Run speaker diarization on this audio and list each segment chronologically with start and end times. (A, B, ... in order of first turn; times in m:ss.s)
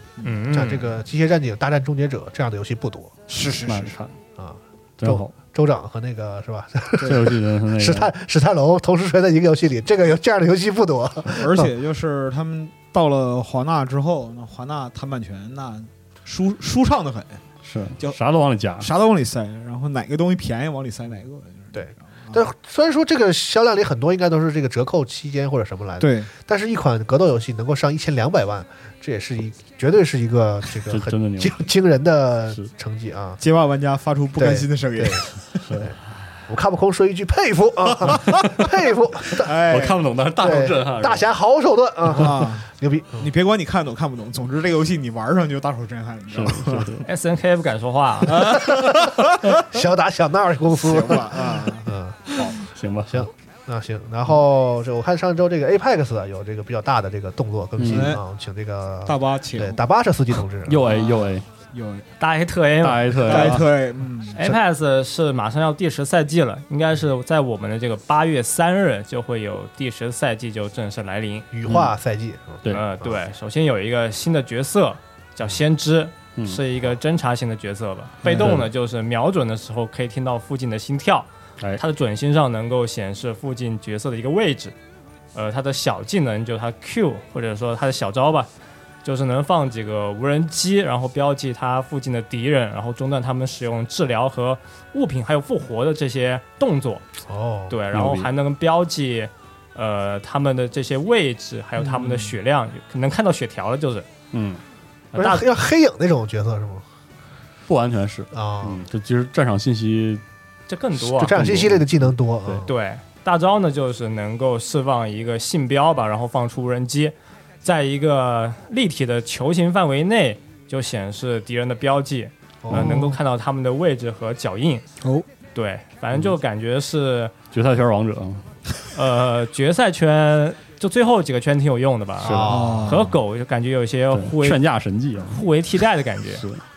0:00.2-0:00.4 A
0:00.2-0:00.9 B
0:00.5-0:03.1 C
0:03.3-0:04.0 A
0:03.6-0:04.1 D
0:04.4-0:07.1 C
0:05.0-0:05.3 D
0:07.0-0:08.1 D
0:07.7-0:11.7 C
0:11.3-0:17.4 A
0:17.6-0:18.9 D
0:18.8-0:22.4 A
0:21.7-0:33.4 C
0:26.0-0:26.3 A
0:30.9-0:31.6 D
0:33.4-0:35.6 A
0:34.4-0:35.2 C
0:36.5-0:39.5 C
0:38.0-0:38.6 A
0:39.3-0:40.0 A
0:39.7-0:41.3 D
0:40.4-0:43.3 C
0:42.1-0:47.0 A
0:46.3-0:47.1 D
0:47.0-0:48.6 B
0:48.3-0:49.5 A
0:49.6-0:52.2 C
0:50.8-0:52.6 A
0:52.4-0:53.3 D
0:53.1-1:00.8 C
0:57.8-0:58.2 D
0:57.9-0:58.2 A
0:59.0-0:59.8 A
1:00.6-1:01.4 D
1:00.8-1:02.1 A
1:02.2-1:03.6 B
1:02.8-1:03.7 D
1:03.2-1:04.4 A
1:04.4-1:11.5 B
1:11.5-1:13.1 C
1:11.6-1:11.9 D
1:12.7-1:24.7 B
1:16.4-1:16.6 D
1:18.2-1:18.6 A
1:18.4-1:18.7 D
1:25.3-1:28.5 B
1:29.0-1:37.0 B
1:37.3-1:37.8 C
1:37.7-1:44.1 B
1:37.9-1:38.3 D
1:41.8-1:42.3 A
1:44.3-1:44.6 D
1:45.1-1:45.4 B
1:45.1-1:46.8 C
1:47.7-1:50.2 D
1:48.3-1:48.8 C
1:50.7-1:51.4 B
1:50.9-1:52.6 D
1:51.2-1:52.7 C
1:52.6-2:04.8 B
2:02.6-2:03.2 C
2:02.7-2:03.0 D
2:05.5-2:07.3 B
2:07.5-2:08.5 D
2:08.9-2:14.6 B
2:12.2-2:12.8 D
2:12.2-2:13.0 C
2:12.5-2:13.1 A
2:14.1-2:15.4 D
2:15.3-2:16.4 B
2:16.3-2:16.6 D